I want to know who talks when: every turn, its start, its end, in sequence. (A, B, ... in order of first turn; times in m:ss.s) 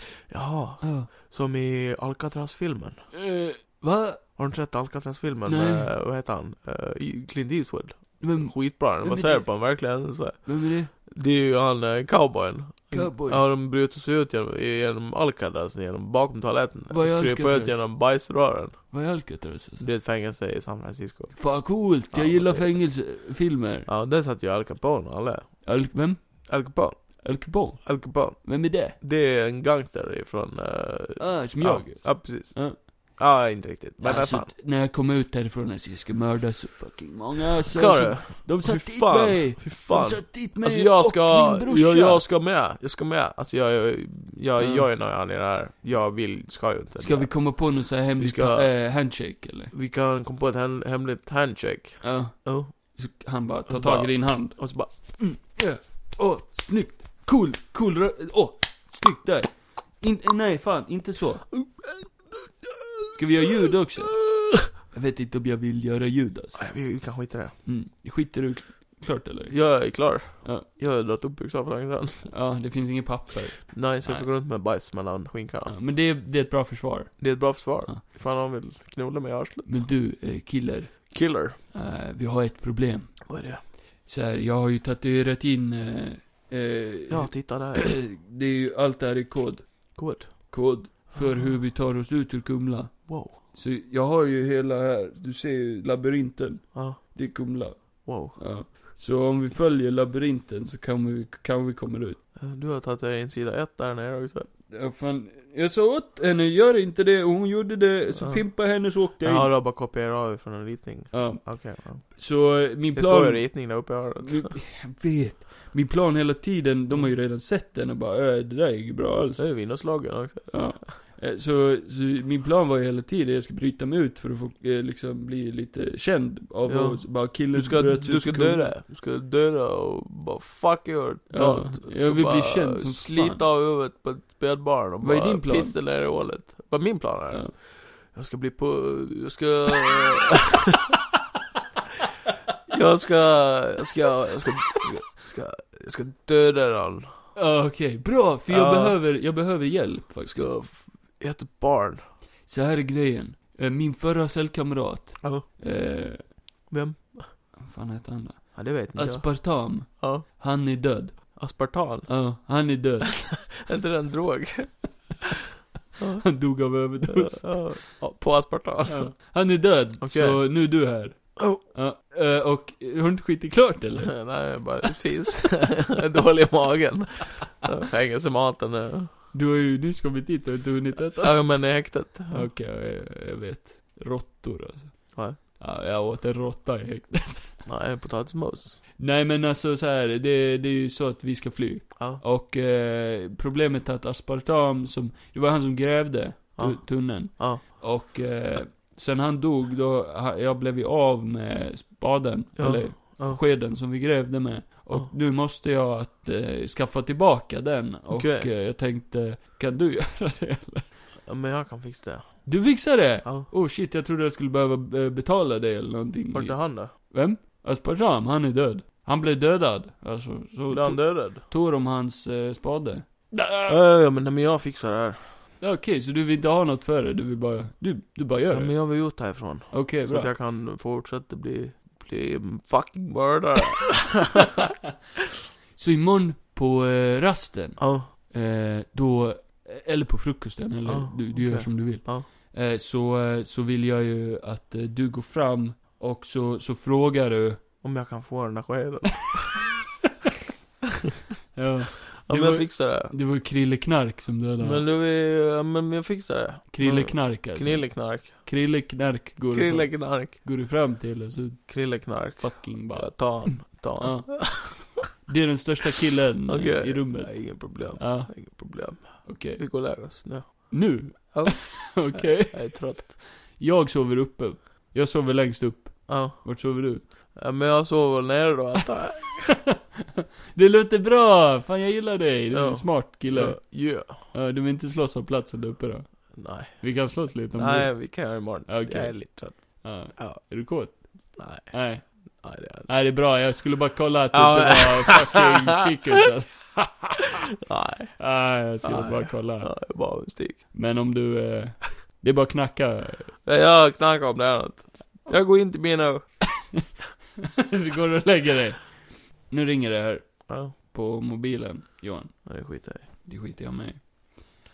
0:00.3-0:03.1 A
0:00.8-0:01.1 B
0:03.1-0:04.4 B
0:04.4-0:23.2 A
0:05.4-0:05.9 B
0:08.2-0:10.9 B
0:12.9-0:13.4 B
0:16.9-0:17.9 B
0:18.9-0:19.9 B
0:21.4-0:23.9 B
0:23.9-0:34.5 A
0:25.6-0:29.0 B
0:31.2-0:32.8 B
0:34.0-0:42.2 B
0:37.7-0:49.0 A
0:44.6-0:44.9 B
0:47.0-0:49.7 B
0:49.7-0:52.7 A
0:52.0-1:01.7 B
0:53.7-0:54.9 A
1:01.5-1:04.7 A
1:03.1-1:06.7 B
1:06.6-1:07.6 A
1:07.6-1:10.7 B
1:09.5-1:12.3 A
1:12.3-1:14.3 B
1:13.7-1:15.8 A
1:15.7-1:18.0 B
1:17.2-1:19.9 A
1:19.7-1:42.2 B
1:21.1-1:21.6 A
1:23.3-1:23.6 A
1:27.1-1:28.0 A
1:30.0-1:31.6 A
1:33.1-1:33.4 A
1:36.7-1:37.2 A
1:38.0-1:38.7 A
1:42.4-1:44.5 A
1:44.7-1:49.5 B
1:48.2-1:52.2 A
1:51.1-1:59.5 B
1:52.9-1:54.6 A
1:59.4-2:00.8 A
2:00.5-2:08.7 B
2:06.7-2:20.8 A
2:11.3-2:13.4 B
2:15.0-2:15.8 B
2:22.7-2:27.3 A
2:27.4-2:30.6 B
2:28.5-2:29.0 A
2:30.3-2:32.0 A
2:32.5-2:36.4 B
2:36.7-2:37.4 A
2:37.6-2:41.5 B
2:38.5-2:40.3 A
2:41.4-2:42.4 A
2:42.1-2:43.4 B
2:43.6-2:45.1 A
2:46.0-2:50.8 A
2:46.2-2:47.8 B
2:48.9-2:54.3 B
2:54.0-2:59.2 A
2:59.3-3:01.7 B
3:01.2-3:02.5 A
3:02.3-3:07.6 B
3:05.1-3:05.4 A
3:07.6-3:08.8 A
3:09.0-3:30.9 B
3:12.0-3:12.2 A
3:16.6-3:17.6 A
3:22.6-3:23.4 A
3:28.1-3:28.5 A
3:31.3-3:33.5 A
3:32.4-3:43.8 B
3:36.3-3:36.9 A
3:40.7-3:41.4 A
3:43.7-3:45.4 A
3:45.6-3:48.9 B
3:48.5-3:54.5 A
3:49.7-3:50.3 B
3:55.7-4:07.6 B
3:57.8-3:58.1 A
4:00.9-4:02.3 A
4:07.8-4:09.8 A
4:11.6-4:14.8 B
4:12.2-4:13.1 A
4:14.6-4:18.5 A
4:16.7-4:30.0 B
4:19.5-4:20.4 A
4:21.7-4:24.9 A
4:26.5-4:33.3 A
4:30.7-4:37.1 B
4:36.1-4:39.6 A
4:40.5-4:57.3 B
4:42.5-4:44.3 A
4:46.3-4:52.9 A
4:54.3-4:55.6 A
4:57.7-5:00.7 A
4:58.2-4:59.9 B
5:00.7-5:03.4 B
5:03.4-5:06.4 A
5:07.6-5:12.5 B
5:10.5-5:10.7 A
5:12.4-5:13.1 A
5:13.0-5:14.4 B